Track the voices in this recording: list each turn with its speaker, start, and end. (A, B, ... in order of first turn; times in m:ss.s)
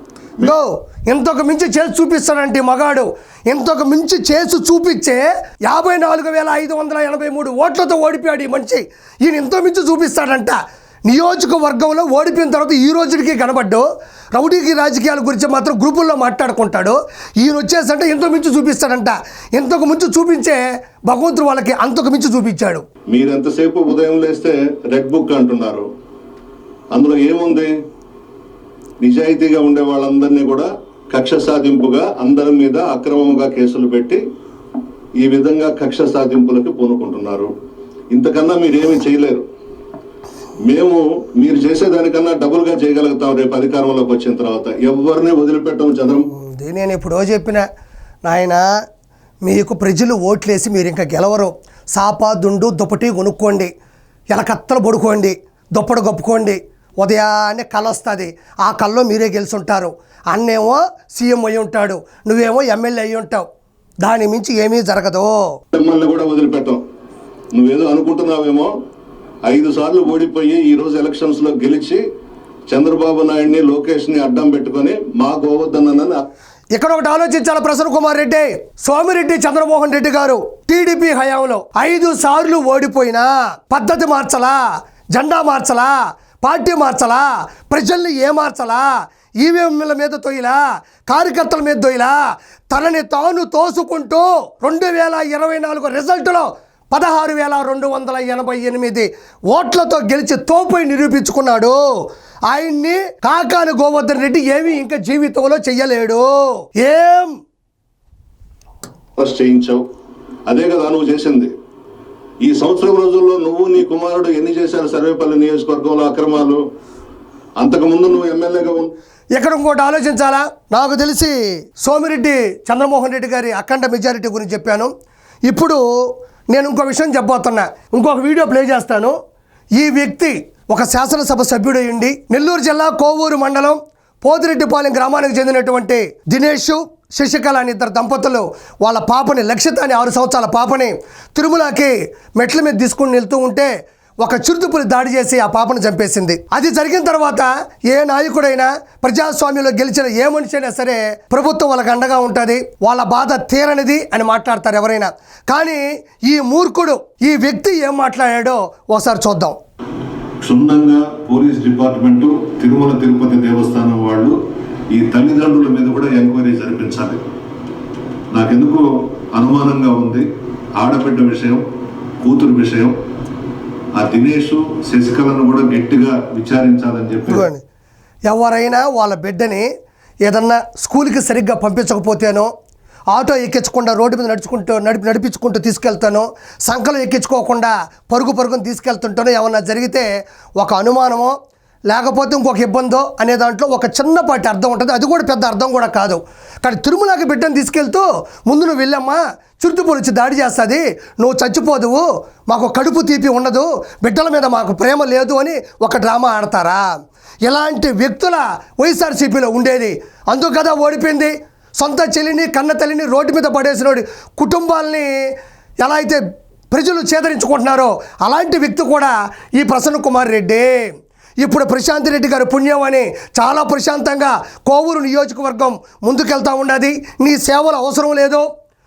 0:00.4-0:22.8 A
0:23.1-0:25.9 B
0:26.9-0:27.7 B
0:29.0-0:34.2 B
0:35.2-0:37.5 B
0:38.1-0:39.4 B
0:40.6-0:46.3 B
0:46.3-0:47.7 A
0:48.3-0:48.6 A
0:49.4-0:53.7 A
0:54.3-1:03.5 A
1:04.0-1:05.4 A
1:05.7-1:06.8 B
1:07.5-1:08.7 B
1:09.4-1:12.0 B
1:12.7-1:16.2 B
1:16.8-1:24.6 A
1:25.2-1:41.8 A
1:42.5-1:47.4 A
1:49.2-1:49.8 B
1:50.5-1:51.5 B
1:52.4-1:56.6 B
1:57.6-1:58.9 B
1:59.4-2:04.9 A
2:05.5-2:05.8 A
2:06.5-2:09.2 A
2:09.8-2:39.6 A
2:40.4-2:44.4 B
2:44.9-2:47.2 B
2:48.3-2:51.6 B
2:52.2-2:53.0 B
2:54.0-2:57.5 B
2:57.3-2:57.6 A
2:58.3-2:59.7 A
3:00.3-3:02.5 A
3:03.1-3:10.1 A
3:10.6-3:11.4 A
3:11.9-3:26.8 A
3:27.5-3:35.1 A
3:35.8-3:36.2 A
3:36.7-3:40.8 A
3:41.4-3:48.5 A